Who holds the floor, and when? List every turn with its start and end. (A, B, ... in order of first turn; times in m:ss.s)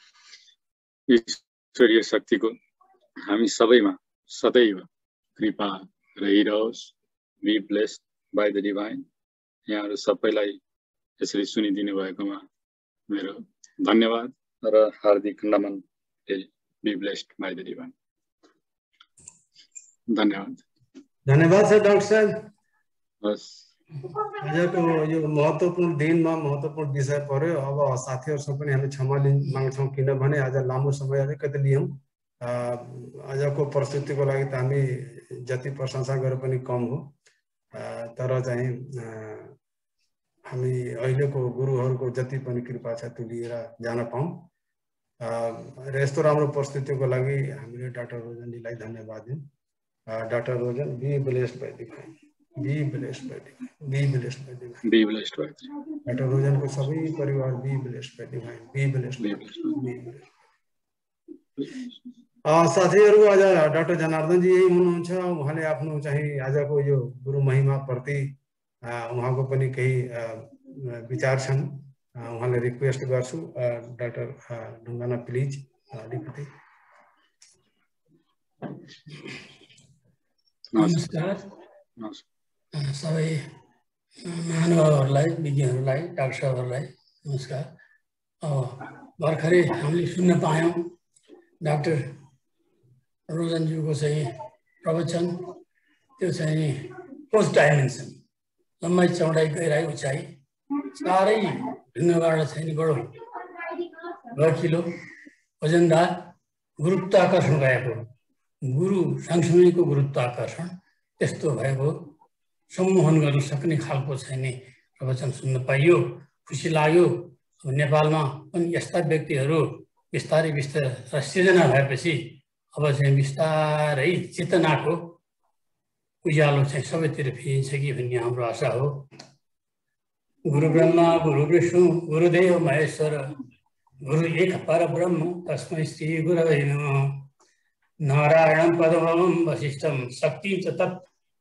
0:01.1-0:02.5 A
0:03.2-0:04.8 A
0:05.4-0:09.0 A
0:09.7-0:10.6 A
0:11.2-0:12.4 A
0:13.1-0:17.9 A
0:20.1-0:20.6 A
0:21.3-0:22.4 B
0:23.2-0:23.6 A
0:24.3-0:37.1 B
0:37.7-0:39.5 B
0:40.5-0:44.4 B
0:45.2-0:49.4 B
0:50.1-0:54.8 B
0:54.8-0:55.7 A
0:56.0-1:00.2 B
0:59.2-0:59.8 A
1:02.5-1:16.5 B
1:20.7-1:21.3 A
1:20.8-1:21.4 C
1:22.0-1:22.2 A
1:22.7-1:23.4 C
1:24.2-1:27.7 C
1:28.4-1:30.9 C
1:31.6-1:32.1 C
1:33.3-1:35.4 C
1:36.2-1:38.2 C
1:38.8-1:40.3 C
1:40.8-1:43.2 C
1:44.3-1:44.9 C
1:45.6-1:48.1 C
1:48.7-1:52.1 C
1:52.7-2:05.1 C
2:06.2-2:09.0 C
2:10.4-2:13.3 C
2:14.0-2:17.3 C
2:18.0-2:21.1 C